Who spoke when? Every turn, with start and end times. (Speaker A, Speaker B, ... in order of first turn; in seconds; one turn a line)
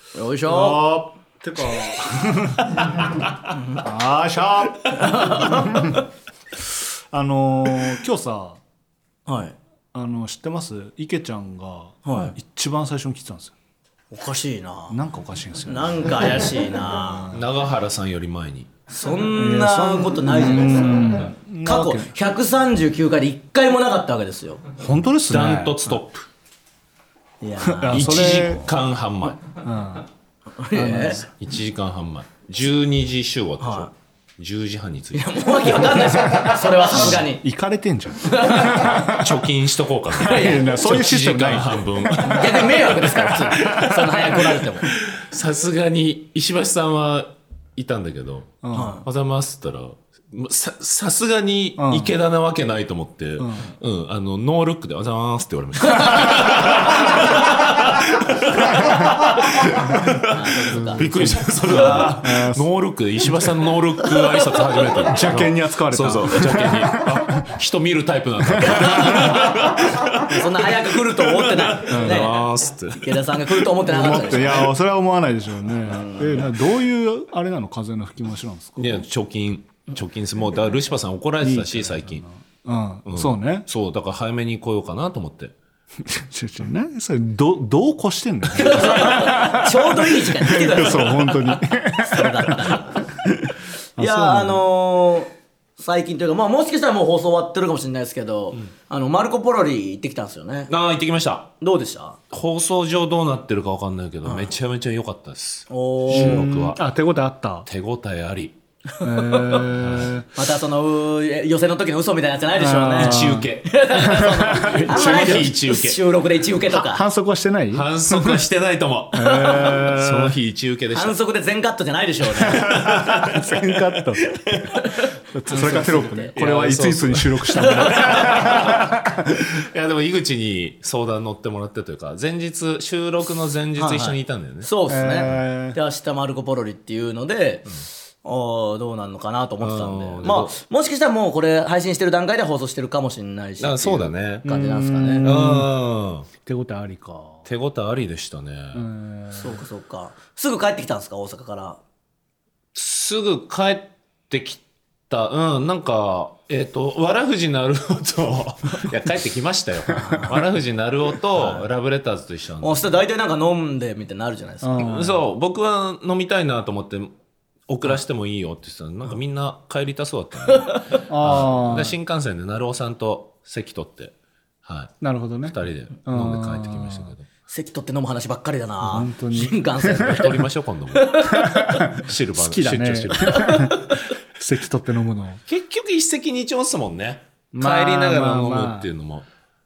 Speaker A: 0.1-0.9
Speaker B: 0.5-3.2
Speaker A: 3.5-3.8
Speaker B: 3.8-6.0
Speaker A: 4.9-6.0
Speaker B: 6.6-8.6
Speaker A: 9.2-9.6
Speaker B: 9.9-13.5
Speaker A: 12.0-12.3
Speaker A: 14.1-15.0
Speaker B: 14.9-17.4
Speaker A: 15.7-17.3
Speaker C: 17.3-18.7
Speaker A: 18.9-24.6
Speaker B: 19.3-22.1
Speaker B: 24.8-25.8
Speaker C: 25.3-26.2
Speaker A: 27.4-28.2
Speaker B: 27.6-28.6
Speaker C: 27.9-29.4
Speaker B: 29.6-30.1
Speaker A: 30.6-31.2
Speaker B: 30.7-31.2
Speaker C: 31.2-36.0
Speaker A: 33.6-33.9
Speaker A: 35.1-37.4
Speaker B: 36.2-39.4
Speaker A: 38.2-39.1
Speaker C: 38.6-74.7
Speaker B: 40.2-43.9
Speaker A: 40.2-40.8
Speaker A: 42.2-44.9
Speaker B: 48.6-49.0
Speaker A: 48.7-49.0
Speaker B: 51.8-52.1
Speaker B: 53.4-53.7
Speaker A: 55.8-57.2
Speaker A: 60.2-61.1
Speaker B: 60.7-62.7
Speaker B: 65.0-67.5
Speaker B: 68.5-69.4
Speaker A: 68.6-74.7
Speaker B: 71.9-72.3
Speaker B: 73.8-79.0
Speaker A: 75.8-76.5
Speaker C: 78.8-82.2
Speaker B: 81.4-83.7
Speaker C: 83.0-85.5
Speaker B: 86.0-94.6
Speaker A: 88.5-93.0
Speaker A: 94.0-100.7
Speaker C: 100.7-101.5
Speaker A: 101.6-102.2
Speaker C: 102.3-106.8
Speaker A: 104.2-104.5
Speaker A: 105.7-106.5
Speaker B: 106.1-107.7
Speaker C: 107.7-108.5
Speaker A: 108.9-109.8
Speaker B: 109.0-110.3
Speaker C: 109.8-110.1
Speaker A: 110.3-117.0
Speaker B: 112.6-115.5
Speaker C: 113.0-116.0
Speaker B: 116.7-118.4
Speaker C: 117.7-121.1
Speaker B: 119.1-120.4
Speaker A: 119.2-119.8
Speaker A: 120.9-123.0
Speaker B: 122.4-124.4
Speaker C: 122.4-124.0
Speaker A: 124.3-126.3
Speaker B: 125.3-129.4
Speaker C: 126.3-134.7
Speaker A: 127.5-128.6
Speaker A: 133.8-145.3
Speaker B: 134.9-135.8
Speaker C: 139.6-140.6
Speaker C: 143.6-144.5
Speaker B: 144.4-145.7
Speaker C: 145.2-146.3
Speaker B: 146.4-147.4
Speaker C: 147.4-148.8
Speaker B: 148.7-149.6
Speaker A: 149.3-151.8
Speaker C: 152.7-162.9
Speaker A: 159.9-160.4
Speaker A: 161.3-161.7
Speaker A: 162.6-165.0
Speaker B: 164.6-165.2
Speaker C: 164.8-167.1
Speaker C: 167.7-174.1
Speaker A: 170.5-171.0
Speaker B: 171.1-171.9
Speaker C: 174.6-174.9
Speaker B: 175.0-177.1
Speaker C: 175.4-177.2
Speaker A: 177.5-181.9
Speaker B: 178.8-180.2
Speaker C: 180.0-181.2
Speaker B: 181.3-185.4
Speaker C: 181.8-183.7
Speaker A: 183.4-184.0
Speaker C: 185.5-189.2
Speaker B: 187.5-188.9